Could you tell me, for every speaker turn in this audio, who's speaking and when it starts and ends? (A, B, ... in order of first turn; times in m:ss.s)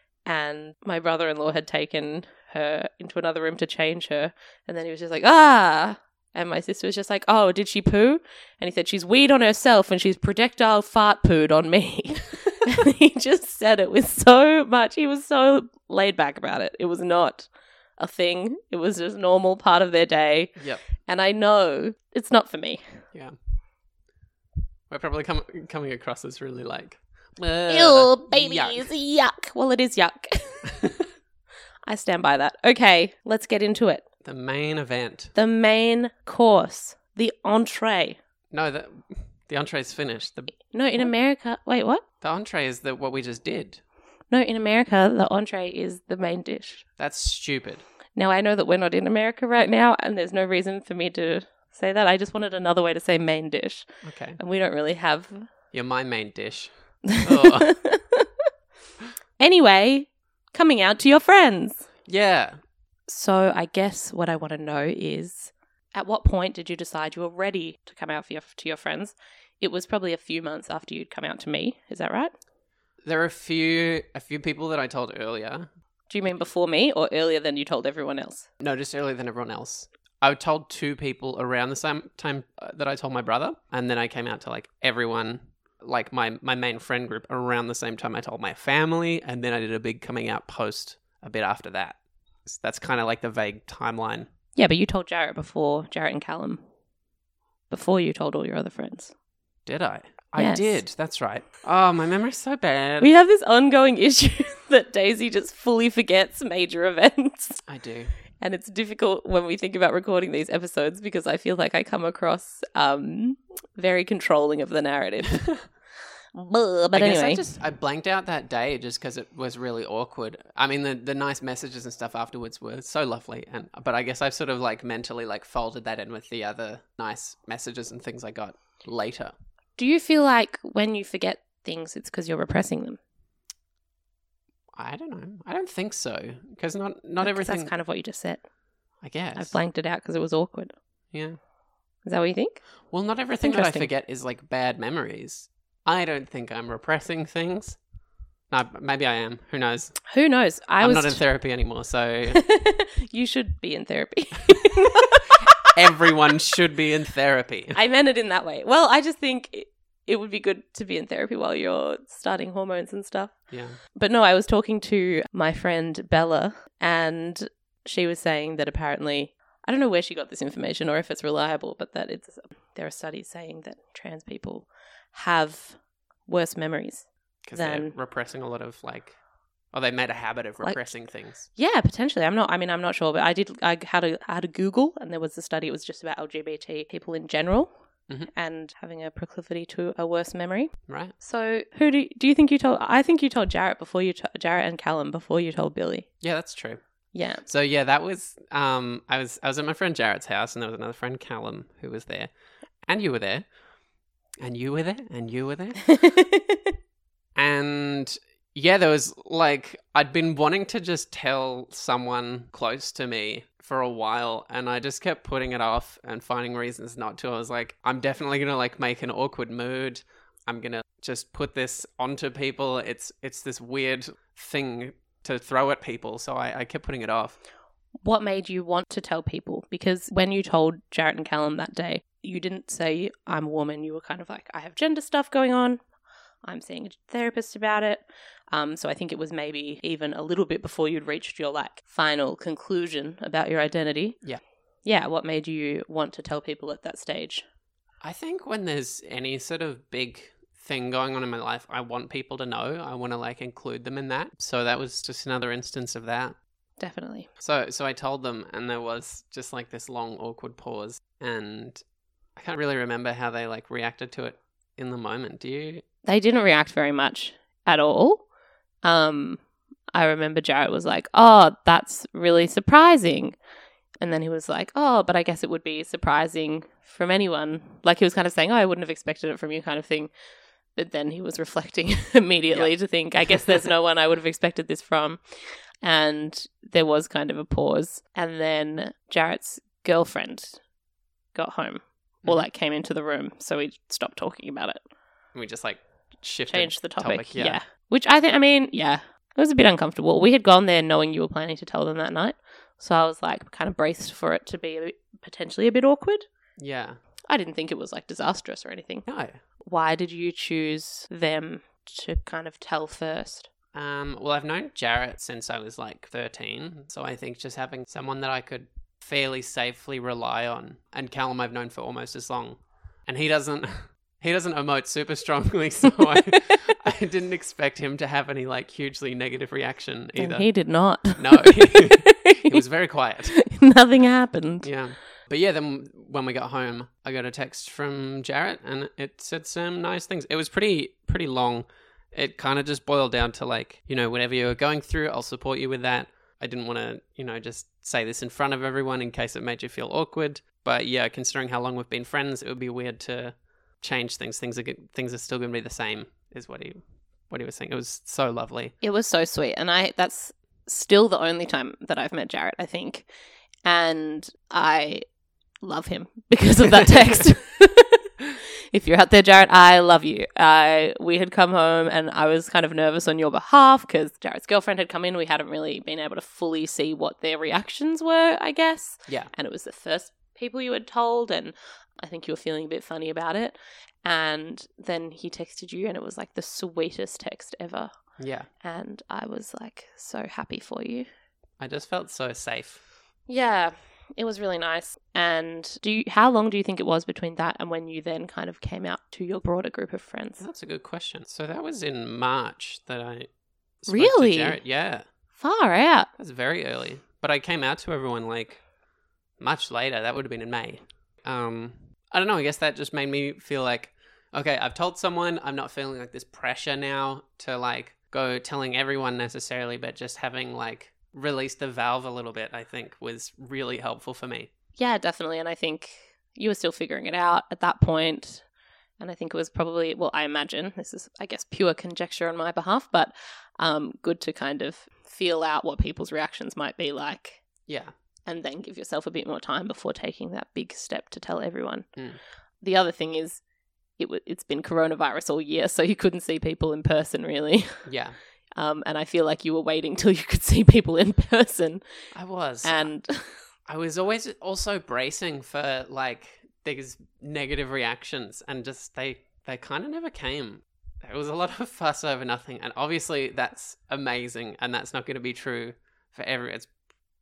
0:00.2-0:23.0 A
0:20.6-0:20.8 B
0:24.9-0:28.9 B
0:27.7-0:30.7 A
0:30.6-0:31.0 B
0:31.9-0:34.0 A
0:34.2-0:35.3 B
0:35.3-0:38.2 A
0:38.5-0:40.6 B
0:40.7-0:42.0 A
0:42.2-0:43.8 B
0:44.3-0:46.8 A
0:47.0-0:47.8 B
0:48.1-0:53.8 A
0:54.0-0:54.4 B
0:54.4-0:55.5 A
0:55.7-0:57.7 B
0:57.1-0:58.4 A
0:59.4-1:01.8 A
1:02.0-1:02.6 B
1:03.1-1:12.3 A
1:13.0-1:15.7 B
1:16.1-1:18.5 A
1:18.6-1:34.3 B
1:34.5-1:36.6 A
1:37.7-1:39.1 A
1:39.6-1:43.1 B
1:40.4-1:40.8 A
1:43.0-1:47.6 A
1:47.6-1:48.1 B
1:48.4-1:55.5 A
1:56.3-1:57.4 A
1:56.9-2:09.3 B
2:09.8-2:13.0 A
2:14.7-2:17.7 B
2:17.2-2:18.4 A
2:19.0-2:19.6 B
2:19.3-2:20.7 A
2:21.1-2:21.4 B
2:22.0-2:22.6 A
2:22.9-2:27.8 B
2:23.4-2:23.9 A
2:28.5-2:30.0 B
2:30.1-2:31.2 A
2:30.8-2:32.4 B
2:32.3-2:36.0 A
2:34.9-2:37.8 B
2:37.7-2:43.3 A
2:43.5-2:43.8 B
2:43.9-2:57.9 A
2:57.4-2:59.2 B
2:59.7-3:01.5 B
3:01.5-3:07.7 A
3:08.3-3:16.1 A
3:10.9-3:11.1 B
3:16.2-3:16.8 B
3:17.1-3:17.4 A
3:17.4-3:22.3 B
3:22.8-3:23.4 B
3:24.4-3:25.8 B
3:25.8-3:26.7 A
3:27.3-3:47.4 B
3:48.0-3:55.8 A
3:56.4-4:04.2 A
4:04.8-4:07.4 A
4:08.0-4:16.4 B
4:16.8-4:17.3 A
4:17.4-4:21.8 B
4:22.4-4:25.8 B
4:26.0-4:28.2 A
4:28.8-4:29.4 A
4:29.9-4:33.3 A
4:34.0-4:40.1 A
4:40.8-4:45.2 A
4:43.2-4:43.7 B
4:45.8-4:50.6 A
4:51.3-4:54.8 A
4:55.3-4:57.6 B
4:56.5-5:06.3 A
5:06.6-5:07.0 B
5:07.3-5:09.0 A
5:09.0-5:09.4 B
5:09.6-5:13.5 A
5:13.7-5:30.5 B
5:30.2-5:32.6 A
5:31.2-5:33.4 B
5:33.3-5:34.7 A
5:34.6-5:56.8 B
5:57.3-5:58.7 B
5:58.8-6:03.0 A
6:03.6-6:05.0 A
6:05.6-6:08.1 A
6:08.7-6:27.9 A
6:28.2-6:28.5 B
6:28.6-6:31.1 A
6:31.6-6:32.8 B
6:33.3-6:40.4 A
6:40.4-6:43.3 B
6:43.8-6:45.0 B
6:43.9-6:44.6 A
6:45.4-6:46.1 A
6:46.2-6:48.6 B
6:49.4-7:04.5 B
7:04.8-7:08.4 A
7:09.0-7:17.4 A
7:17.7-7:17.9 B
7:18.3-7:21.9 A
7:22.6-7:23.4 A
7:24.0-7:27.8 A
7:27.8-7:28.2 B
7:28.6-7:31.8 A
7:32.1-7:32.9 B
7:32.6-7:33.4 A
7:33.7-7:46.7 B